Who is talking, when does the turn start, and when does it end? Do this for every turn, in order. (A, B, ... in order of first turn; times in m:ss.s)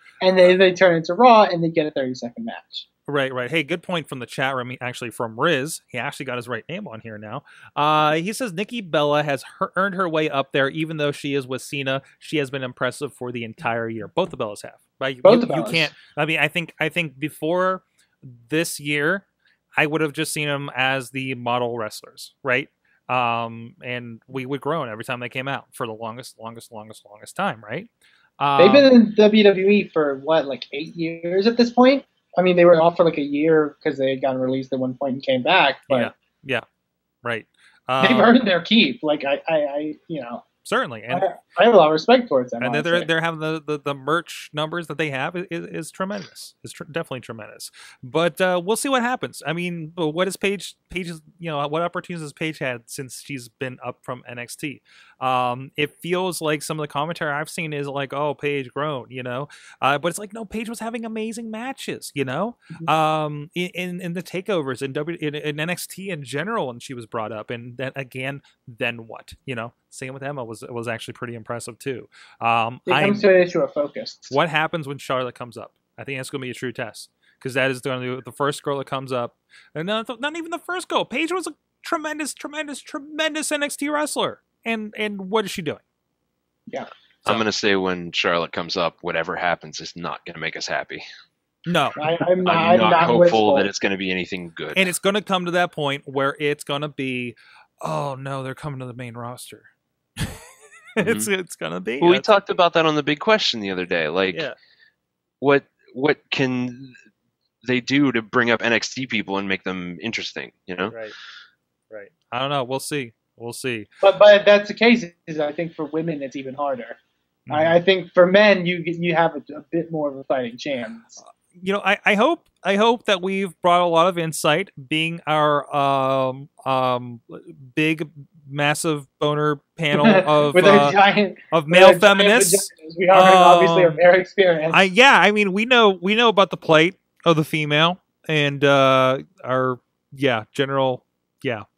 0:00.2-0:02.8 A
0:03.1-0:28.9 B
0:15.2-0:15.9 A
0:28.6-0:36.1 A
0:35.9-0:36.6 B
0:37.2-0:38.3 B
0:38.0-0:40.4 A
0:40.6-0:41.3 B
0:41.1-0:43.1 A
0:42.6-1:13.2 B
1:12.8-1:14.3 A
1:14.3-1:25.8 B
1:27.3-1:31.0 C
1:31.6-1:32.0 B
1:32.0-1:33.7 A
1:32.4-1:34.8 C
1:34.7-1:40.4 B
1:41.0-1:42.3 B
1:41.0-1:41.3 C
1:42.0-1:44.5 C
1:44.3-1:44.6 B
1:45.4-1:46.9 C
1:47.6-1:50.9 C
1:50.9-1:51.1 B
1:51.9-1:53.9 B
1:54.0-1:57.0 A
1:57.5-1:57.8 B
1:57.5-2:01.2 A
2:01.5-2:11.0 B
2:09.9-2:14.8 A
2:11.5-2:14.0 B
2:14.7-2:21.6 B